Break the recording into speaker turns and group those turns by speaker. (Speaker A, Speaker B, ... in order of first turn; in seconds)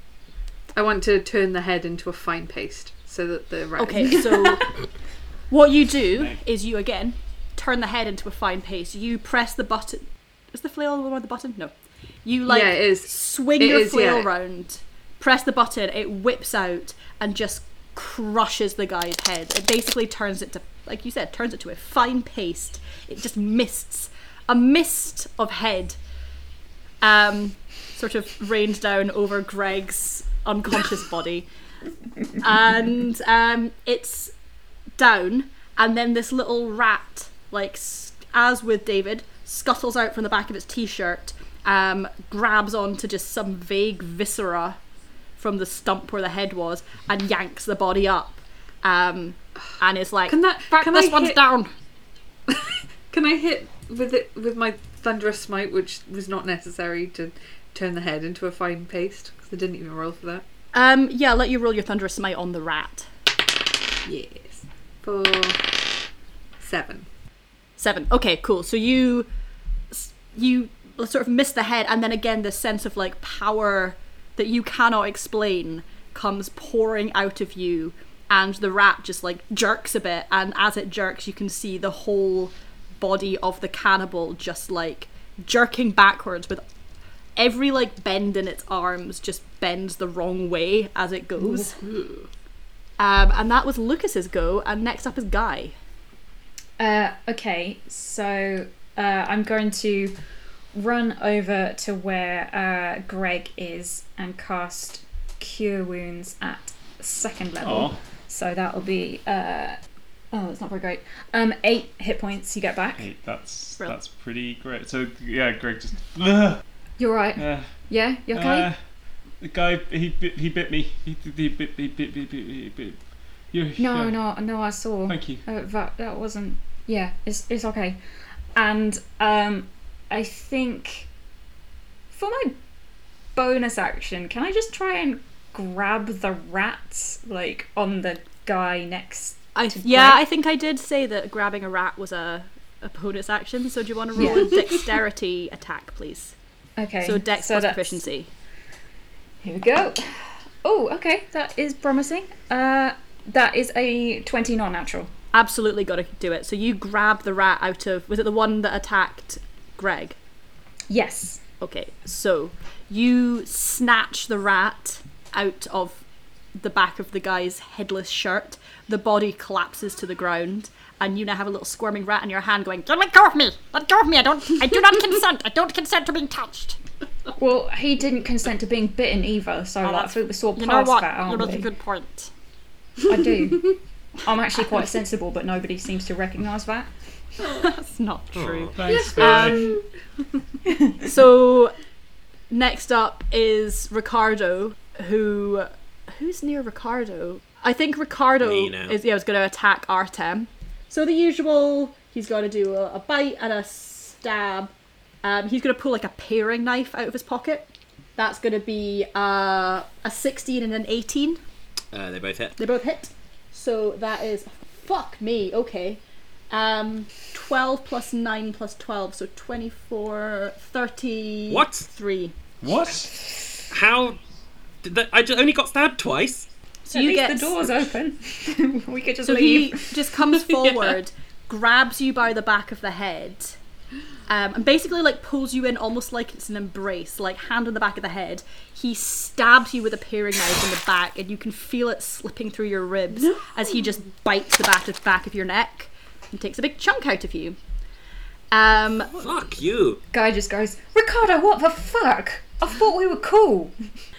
Speaker A: 0.7-4.7, 12.5-14.3, 50.3-51.4, 52.5-60.4, 64.0-65.8, 66.6-67.1, 91.6-92.3, 188.9-189.8
Speaker B: 3.8-4.7, 5.5-11.7, 12.2-26.0, 27.0-31.5, 32.4-34.3, 35.0-44.8, 45.4-51.7, 60.7-63.1, 67.8-69.3, 69.9-86.6, 87.4-91.8, 93.0-95.7, 139.6-146.3, 147.0-148.3, 155.3-160.2, 161.6-166.0, 166.6-176.8, 179.8-182.3, 187.6-189.8, 191.0-191.8, 192.5-204.7, 205.2-211.4, 212.6-216.0, 216.5-222.3, 226.8-227.7, 229.2-233.6, 234.3-247.6, 248.5-249.1
Speaker C: 96.8-100.2, 100.7-109.8, 110.3-113.1, 117.0-118.7, 123.8-128.0, 128.6-131.1, 132.1-132.6, 133.3-140.2, 144.2-144.5, 146.8-148.0, 149.4-155.1, 160.9-161.4, 177.4-181.7, 183.1-186.9, 226.9-230.1, 250.1-253.8
Speaker D: 107.6-108.0, 113.0-116.6, 117.4-117.7, 118.3-118.8, 119.4-123.0, 123.5-124.2, 125.1-125.4, 188.8-189.8, 222.6-223.1
Speaker E: 188.3-188.8, 198.4-199.0, 211.9-212.6, 221.5-221.9, 223.7-224.2, 224.8-226.5, 249.1-250.0